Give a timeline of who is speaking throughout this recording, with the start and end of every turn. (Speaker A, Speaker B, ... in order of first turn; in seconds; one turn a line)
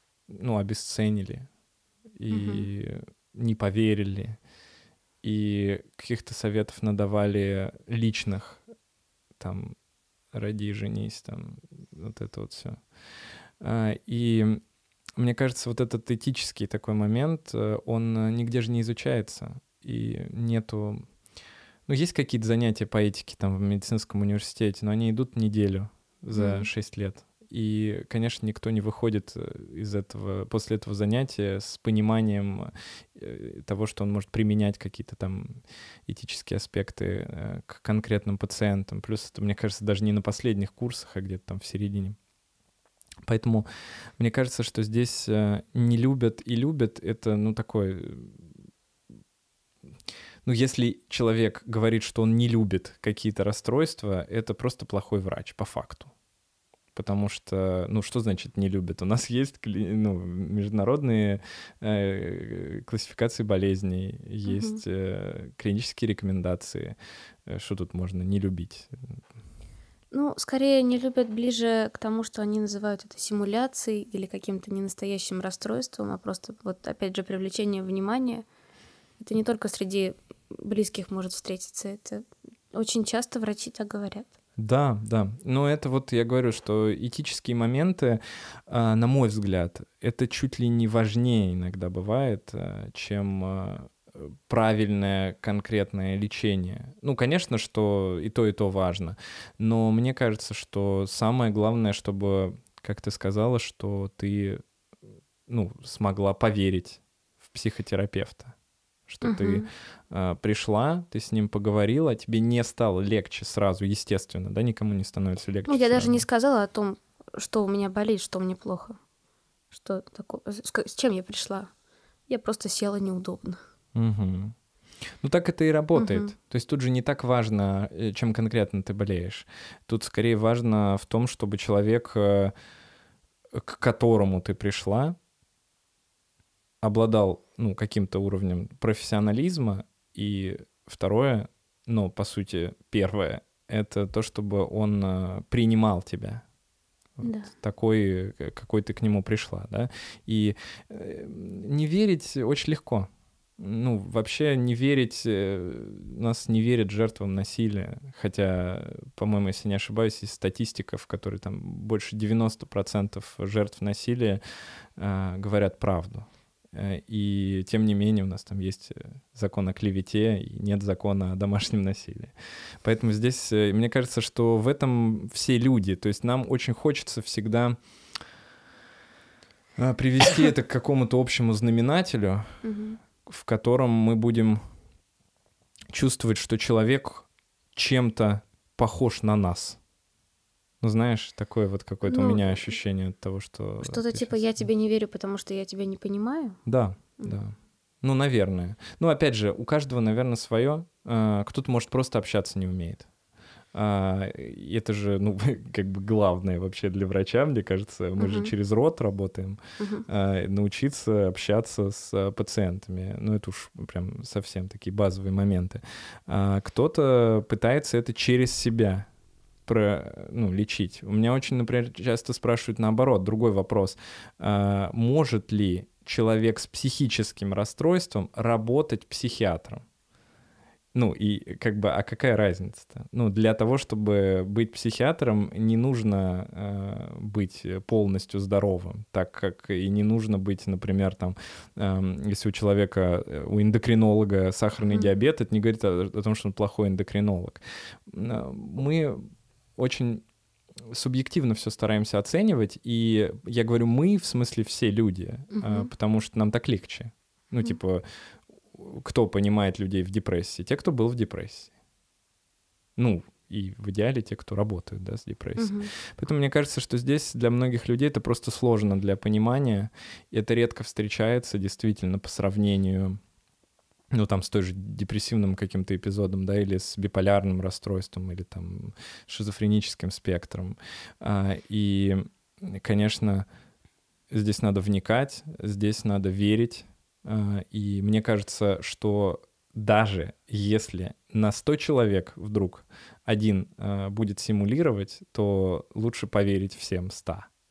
Speaker A: 0.3-1.5
Speaker A: 2.2-4.4
Speaker B: 2.3-2.7
Speaker A: 5.2-8.6
Speaker A: 9.4-9.8
Speaker A: 10.3-12.9
Speaker A: 13.6-14.6
Speaker A: 15.2-21.1
Speaker A: 21.9-42.2
Speaker B: 26.3-26.7
Speaker A: 43.2-43.7
Speaker A: 44.2-48.5
Speaker A: 50.4-56.1
Speaker A: 56.9-69.2
Speaker B: 64.4-64.8
Speaker B: 70.1-78.5
Speaker B: 79.2-84.3
Speaker A: 84.6-104.6
Speaker A: 105.5-108.5
Speaker A: 109.0-116.2
Speaker B: 109.2-109.7
Speaker B: 115.7-119.0
Speaker B: 119.7-121.7
Speaker B: 122.3-123.6
Speaker A: 123.9-124.6
Speaker A: 125.2-132.5
Speaker B: 125.9-126.3
Speaker A: 133.5-135.2
Speaker A: 136.8-146.4
Speaker A: 147.2-164.4
Speaker B: 147.2-147.5
Speaker A: 165.0-177.8
Speaker A: 179.8-182.6
Speaker B: 182.6-183.0
Speaker A: 183.2-184.7
Speaker A: 185.9-189.8
Speaker A: 190.8-194.6
Speaker B: 192.0-192.8
Speaker B: 193.8-196.6
Speaker A: 196.6-203.1
Speaker A: 203.7-219.1
Speaker B: 208.2-208.5
Speaker B: 209.8-210.1
Speaker A: 219.6-229.8
Speaker A: 230.9-250.2
Speaker A: 250.9-258.0
Speaker B: 255.5-255.9
Speaker A: 258.6-261.7
Speaker A: 262.9-273.2
Speaker B: 265.6-265.9
Speaker A: 274.1-283.5
Speaker A: 284.3-297.5